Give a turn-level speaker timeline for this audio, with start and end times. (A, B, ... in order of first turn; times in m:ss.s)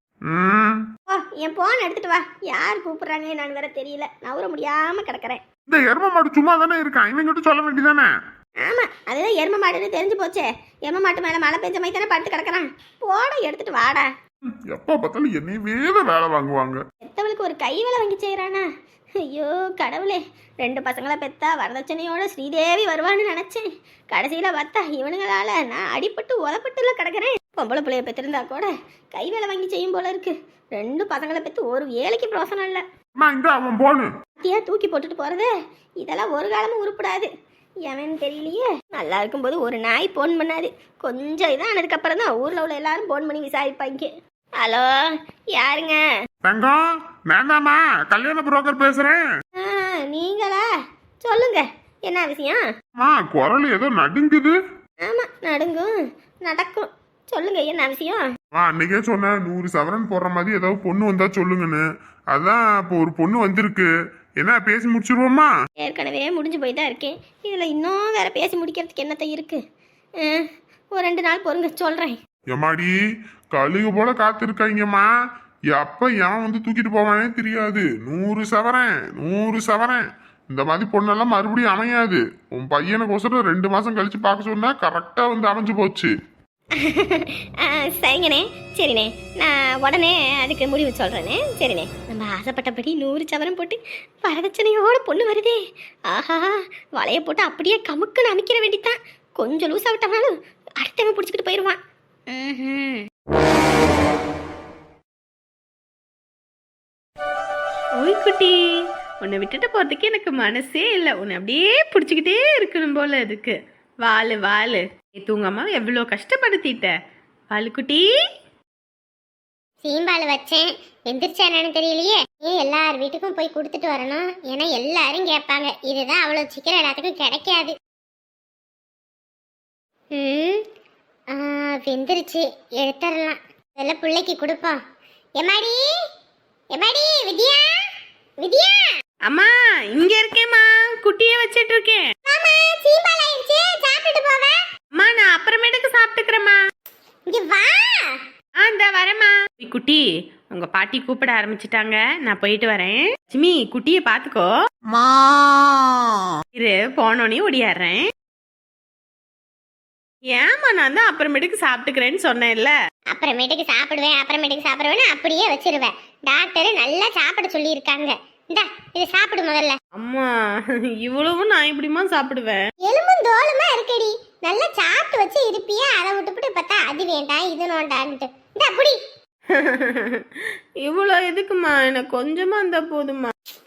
0:00.3-0:00.8 A
0:01.1-0:05.4 B
0:05.7-0:08.1 A
0:08.6-0:14.1 B
0:14.7-0:16.8 A
0:17.0-0:18.7 B
0:19.2-0:32.8 B
0:33.2-0:34.1 A
0:34.4-0:37.3 B
0:37.8-0:46.1 B
0:46.4-0:49.3 A
0:49.6-0:50.7 B
0:51.2-0:52.6 B
0:53.0-0:54.6 A
0:55.0-0:58.2 B
0:58.5-1:03.9 A
1:04.4-1:05.5 A
1:05.8-1:09.6 B
1:10.2-1:12.2 B
1:12.5-1:12.9 A
1:13.5-1:15.1 A
1:15.7-1:26.1 A
1:26.8-1:35.6 B
1:36.1-1:43.1 B
1:48.0-1:48.6 C
1:49.2-1:56.9 C
1:57.5-1:58.1 C
1:59.8-2:07.8 D
2:10.1-2:10.6 D
2:11.3-2:14.8 D
2:15.4-2:15.8 D
2:16.7-2:17.7 D
2:18.4-2:18.9 D
2:19.3-2:22.1 C
2:22.3-2:24.6 D
2:24.9-2:26.6 C
2:27.3-2:28.2 D
2:28.6-2:34.5 C
2:36.6-2:38.1 C
2:40.3-2:42.8 C
2:43.1-2:49.8 D
2:50.0-2:52.6 C
2:52.8-2:59.0 D
2:59.5-3:03.3 C